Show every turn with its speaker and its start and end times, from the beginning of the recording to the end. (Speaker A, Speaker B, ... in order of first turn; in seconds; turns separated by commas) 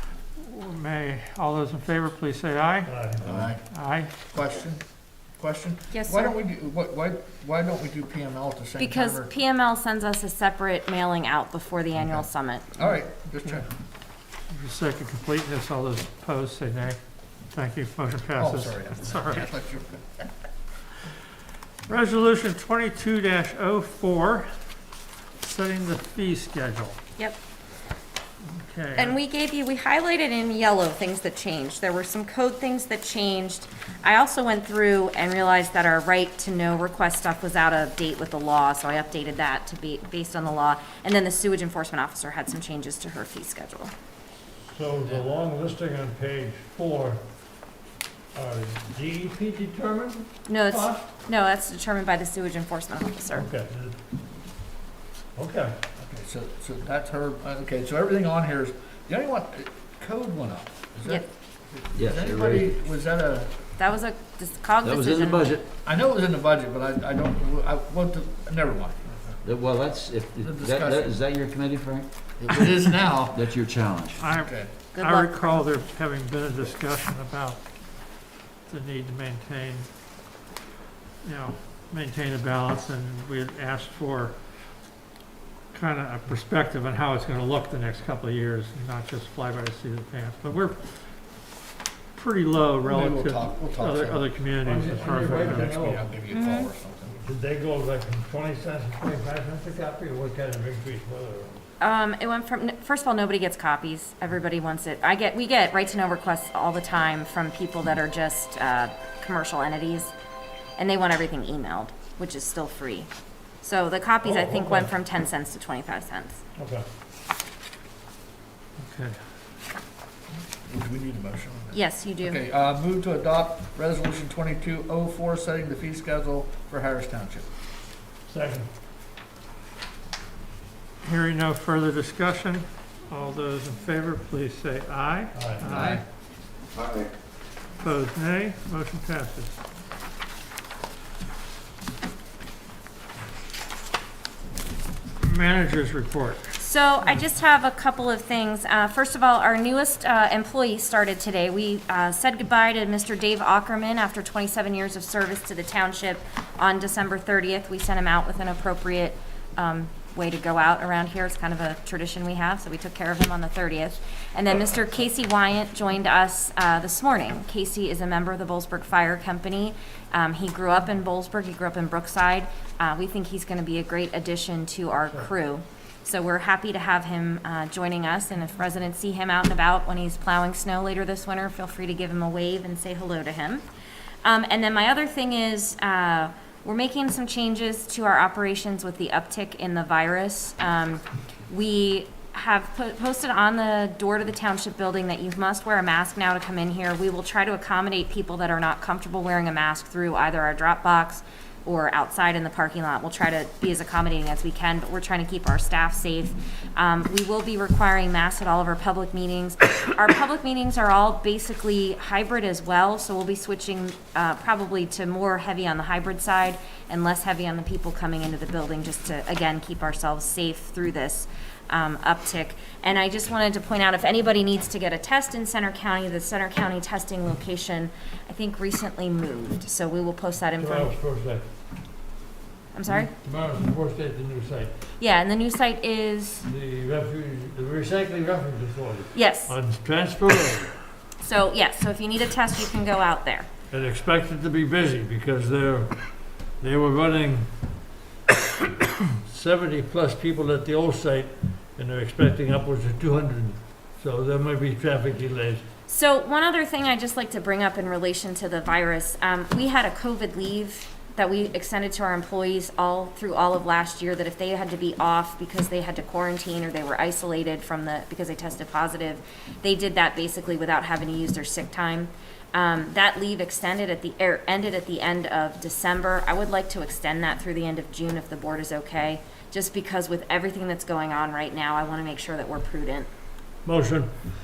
Speaker A: 0.3-2.9, Speaker B: 2.8-3.2, Speaker C: 3.2-3.5, Speaker D: 3.2-4.8, Speaker A: 3.7-4.1, Speaker D: 5.3-9.3, Speaker E: 5.9-6.3, Speaker E: 8.8-12.8, Speaker D: 12.8-13.7, Speaker A: 14.5-17.0, Speaker A: 17.5-19.5, Speaker D: 18.4-20.2, Speaker A: 21.9-24.5, Speaker A: 25.4-27.0, Speaker A: 28.5-29.2, Speaker E: 28.9-43.9, Speaker B: 44.7-47.2, Speaker B: 48.3-51.0, Speaker E: 50.5-53.5, Speaker B: 53.3-54.0, Speaker B: 55.4-55.8, Speaker D: 56.0-63.6, Speaker C: 61.9-62.7, Speaker E: 63.8-65.6, Speaker C: 64.8-65.7, Speaker D: 65.8-69.4, Speaker C: 69.4-72.7, Speaker D: 70.4-71.1, Speaker D: 72.4-73.4, Speaker C: 73.3-74.3, Speaker D: 74.2-74.7, Speaker A: 74.2-78.1, Speaker E: 74.9-75.8, Speaker A: 78.7-79.9, Speaker A: 81.2-84.3, Speaker A: 85.7-90.8, Speaker A: 92.1-95.9, Speaker D: 92.8-97.1, Speaker B: 94.6-96.1, Speaker E: 96.3-96.7, Speaker B: 97.1-101.6, Speaker E: 101.8-110.1, Speaker E: 110.8-113.1, Speaker E: 113.6-116.4, Speaker B: 114.2-114.9, Speaker B: 116.6-116.8, Speaker A: 118.8-119.2, Speaker D: 120.5-127.5, Speaker E: 121.7-122.4, Speaker B: 128.3-128.7, Speaker A: 131.0-136.0, Speaker B: 135.3-135.9, Speaker D: 135.5-136.0, Speaker A: 137.8-139.5, Speaker A: 145.2-146.5, Speaker E: 146.6-183.6, Speaker E: 184.2-231.0, Speaker B: 230.5-231.4, Speaker E: 232.7-233.1, Speaker B: 232.9-234.9, Speaker E: 235.0-236.5, Speaker B: 236.4-240.9, Speaker E: 239.1-239.5, Speaker E: 241.2-243.5, Speaker B: 243.7-247.5, Speaker B: 249.2-255.6, Speaker E: 255.9-283.1, Speaker B: 283.6-284.1